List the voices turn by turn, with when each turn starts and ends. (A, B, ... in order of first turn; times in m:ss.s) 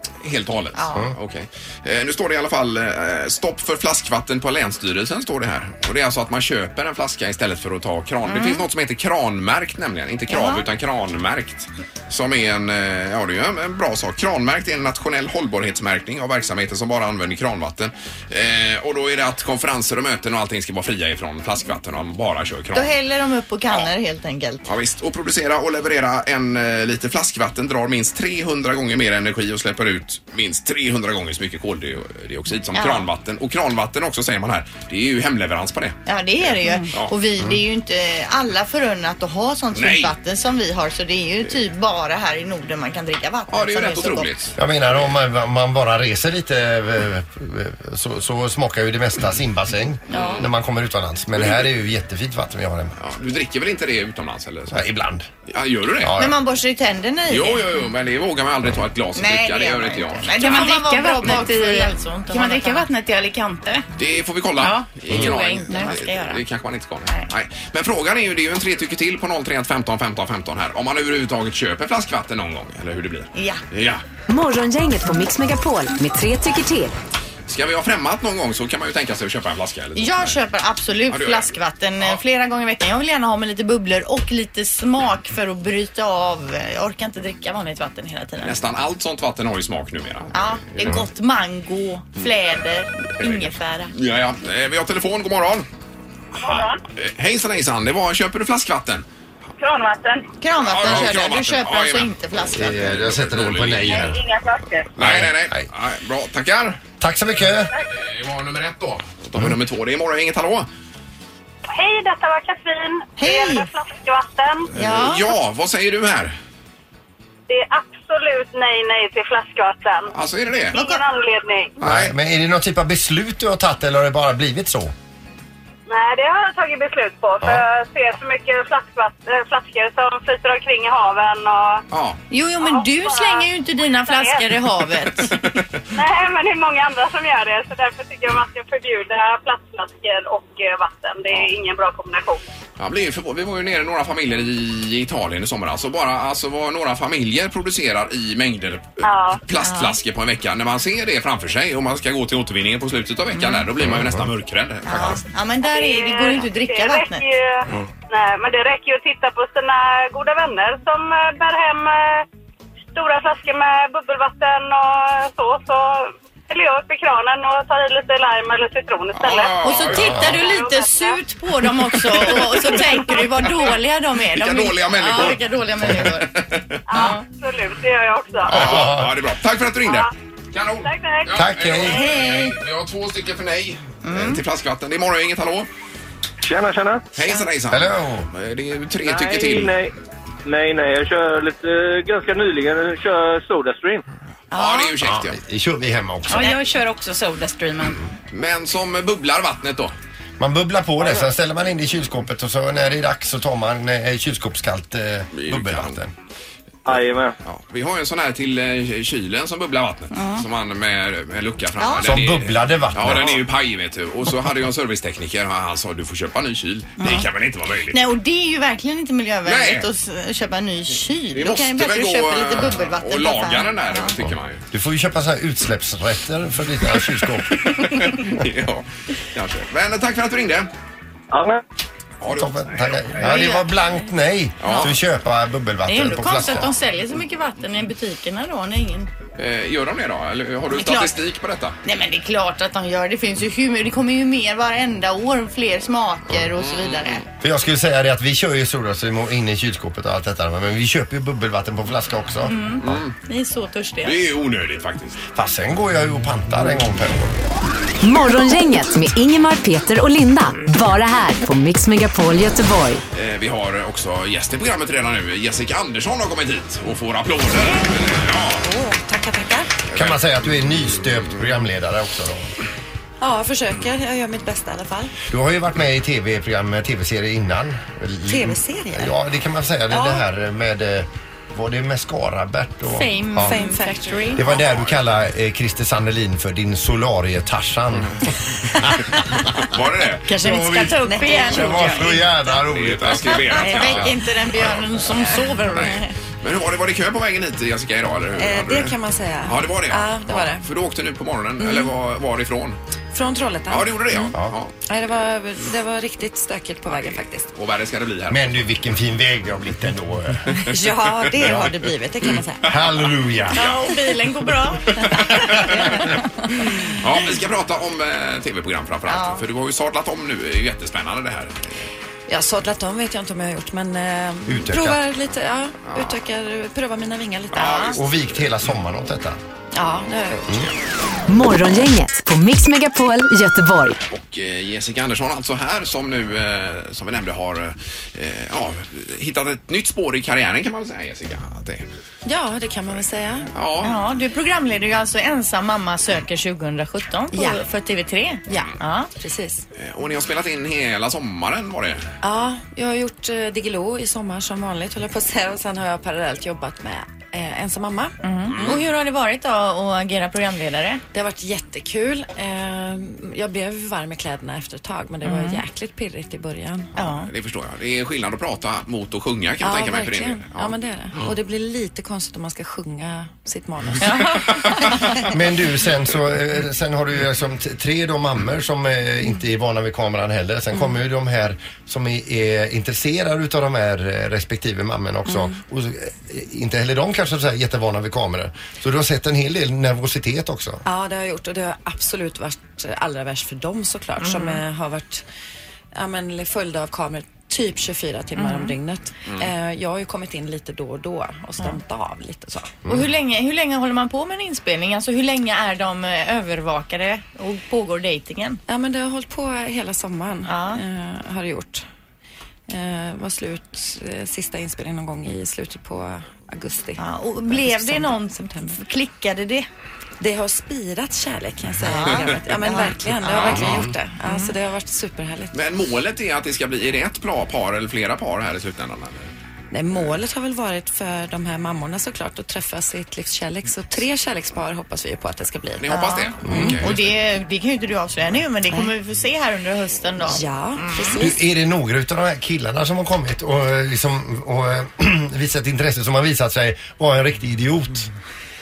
0:00.2-0:23.0 A
0:00.7-0:01.1 B
0:08.2-0:08.6 B
0:10.3-0:10.6 B
0:22.7-0:24.6 B
0:24.6-0:37.1 A
0:32.7-0:33.1 B
0:36.1-0:44.3 B
0:39.7-0:40.1 A
0:43.5-0:45.2 A
0:44.6-0:53.0 C
0:50.1-0:50.5 A
0:50.1-0:50.4 B
0:51.4-0:51.7 A
0:53.0-0:54.8 A
0:54.7-0:55.3 C
0:55.5-0:56.2 A
0:56.0-0:56.4 C
0:56.1-0:57.7 B
0:57.3-1:00.6 A
0:59.2-1:02.9 B
1:00.4-1:03.9 D
1:04.0-1:14.0 A
1:04.6-1:04.9 D
1:05.1-1:06.4 B
1:13.3-1:13.6 B
1:14.3-1:16.9 E
1:17.5-1:20.4 A
1:20.0-1:28.6 B
1:21.1-1:22.2 A
1:28.4-1:31.0 A
1:30.3-1:33.9 B
1:33.2-1:35.7 A
1:36.4-1:39.0 A
1:36.4-1:36.8 F
1:39.6-1:40.3 F
1:40.4-1:42.9 B
1:40.6-1:44.2 A
1:42.5-1:44.2 C
1:43.9-1:44.9 F
1:45.0-1:46.8 A
1:45.0-1:45.6 C
1:47.0-1:47.7 C
1:47.7-1:50.7 A
1:51.7-1:54.7 F
1:53.2-1:53.7 B
1:54.7-1:56.4 A
1:54.8-1:55.3 B
1:57.5-2:00.1 F
2:00.1-2:00.8 A
2:00.7-2:01.7 F
2:00.7-2:01.0 B
2:01.8-2:02.1 A
2:01.8-2:04.9 C
2:05.9-2:11.8 F
2:11.9-2:12.2 A
2:12.3-2:15.4 B
2:12.6-2:14.5 F
2:15.2-2:15.6 A
2:15.9-2:22.4 F
2:22.8-2:35.2 A
2:29.0-2:29.4 F
2:29.6-2:30.0 B
2:33.3-2:33.7 B
2:33.9-2:34.2 C
2:34.8-2:37.2 B
2:35.6-2:42.2 F
2:42.9-2:51.2 F
2:49.1-2:50.3 A
2:49.6-2:56.3 B
2:49.9-2:50.4 C
2:51.9-2:56.8 A
2:56.9-2:58.6 F
2:56.9-2:57.2 B
2:58.4-2:59.2 C
2:58.5-3:05.7 A
2:59.8-3:00.1 F
3:00.8-3:01.5 F
3:01.3-3:02.0 C
3:01.8-3:02.6 B
3:04.0-3:04.4 B
3:06.4-3:07.0 G
3:07.1-3:09.8 A
3:07.7-3:08.3 C
3:09.0-3:09.9 G
3:10.4-3:14.0 G
3:14.5-3:15.4 A
3:14.5-3:14.9 B
3:15.0-3:16.5 C
3:16.3-3:18.0 D
3:18.3-3:19.9 A
3:20.4-3:26.1 C
3:25.3-3:26.0 A
3:26.8-3:27.3 G
3:27.4-3:38.0 A
3:30.1-3:30.4 B
3:31.8-3:32.1 B
3:32.0-3:33.4 C
3:37.0-3:37.3 B
3:37.9-3:44.1 B
3:39.4-3:39.9 A
3:41.3-3:44.6 A
3:44.7-3:47.7 C
3:47.6-3:50.7 A
3:51.3-3:51.6 G
3:52.2-3:53.3 A
3:52.3-3:56.7 C
3:53.2-3:53.7 B
3:54.6-3:54.9 A
3:54.6-3:54.9 B
3:55.8-3:59.1 B
3:59.4-4:01.8 A
4:00.7-4:01.1 B
4:01.8-4:07.2 B
4:06.5-4:07.2 A
4:07.4-4:13.0 C
4:12.4-4:14.2 B
4:12.8-4:13.1 A
4:14.0-4:15.2 A
4:15.3-4:17.4 C
4:18.0-4:23.0 E
4:23.1-4:28.6 A
4:28.6-4:29.7 H
4:29.9-4:30.2 A
4:29.9-4:32.5 C
4:33.2-4:35.1 H
4:35.3-4:43.6 C
4:38.3-4:39.1 H
4:39.9-4:40.2 H
4:42.9-4:44.4 B
4:43.4-4:44.3 H
4:44.3-4:48.3 C
4:44.5-4:44.9 A
4:49.6-4:50.3 A
4:50.3-4:52.2 B
4:50.3-4:54.1 C
4:51.0-4:51.9 H
4:52.7-4:54.9 A
4:53.5-4:56.1 B
4:55.7-5:02.8 A
4:58.4-5:00.6 H
5:01.6-5:01.9 H
5:03.1-5:04.3 H
5:03.7-5:04.7 A
5:04.9-5:07.5 H
5:07.5-5:08.6 A
5:08.3-5:10.6 C
5:10.6-5:12.7 H
5:11.4-5:11.6 A
5:11.4-5:11.7 C
5:12.6-5:13.7 C
5:12.7-5:12.9 A
5:13.5-5:13.9 A
5:13.5-5:16.2 B
5:15.0-5:16.0 A
5:16.9-5:21.8 A
5:19.0-5:19.4 B
5:22.3-5:28.0 H
5:24.5-5:25.0 C
5:25.9-5:26.1 A
5:27.5-5:28.0 A
5:27.6-5:27.9 B
5:27.9-5:29.4 C
5:29.7-5:30.7 H
5:31.3-5:34.0 E
5:34.1-5:41.8 A
5:42.2-5:43.5 H
5:43.5-5:44.0 A
5:43.8-5:49.1 B
5:47.3-5:47.6 H
5:48.5-5:49.6 H
5:49.8-5:52.1 A
5:52.2-5:58.2 H
5:58.2-6:01.0 B
5:58.5-5:58.9 A
6:01.1-6:06.9 H
6:05.2-6:05.6 B
6:07.0-6:07.3 B
6:07.0-6:10.7 A
6:09.6-6:14.5 H
6:14.0-6:15.0 B
6:15.3-6:30.8 C
6:25.3-6:25.6 H
6:30.8-6:35.2 H
6:34.2-6:34.6 B
6:35.9-6:42.8 H
6:38.4-6:38.8 B
6:42.9-6:48.6 B
6:48.7-6:51.8 H
6:50.5-6:50.8 B
6:52.7-6:58.8 H
6:57.0-6:59.7 B
7:00.2-7:05.6 H
7:01.8-7:04.5 B
7:03.5-7:03.9 C
7:05.5-7:09.3 A
7:09.7-7:16.8 H
7:15.8-7:17.0 A
7:15.9-7:21.2 B
7:16.4-7:16.8 C
7:20.2-7:21.4 H
7:21.2-7:28.1 C